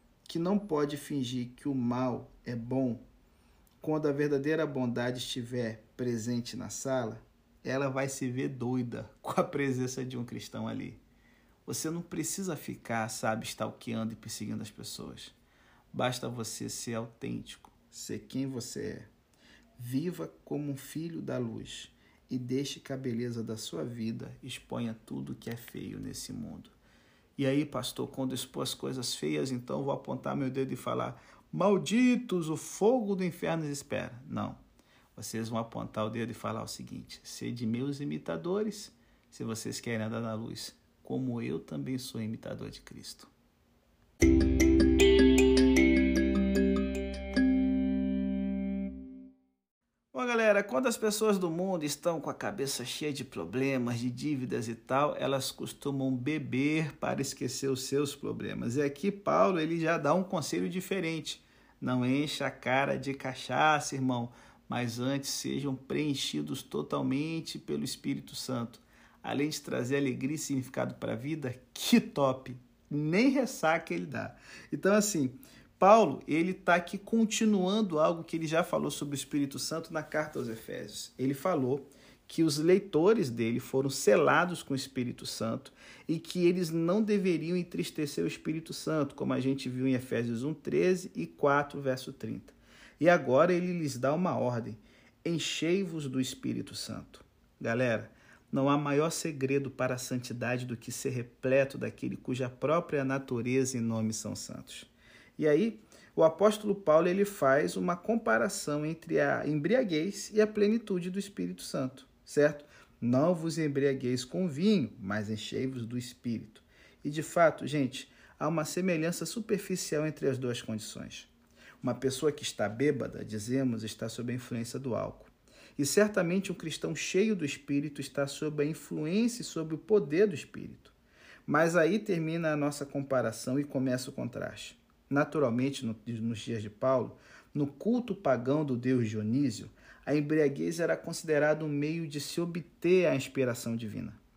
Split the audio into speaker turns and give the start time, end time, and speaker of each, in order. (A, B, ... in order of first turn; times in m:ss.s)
0:00.3-0:03.0 A
0:03.8-0:11.0 A
0:11.7-0:15.4 A
0:15.9-0:19.1 A
0:19.8-0:26.8 A
0:27.4-0:34.6 A
0:35.2-0:43.3 A
0:50.1-2:01.3 A
2:01.8-2:11.0 A
2:11.5-2:24.2 A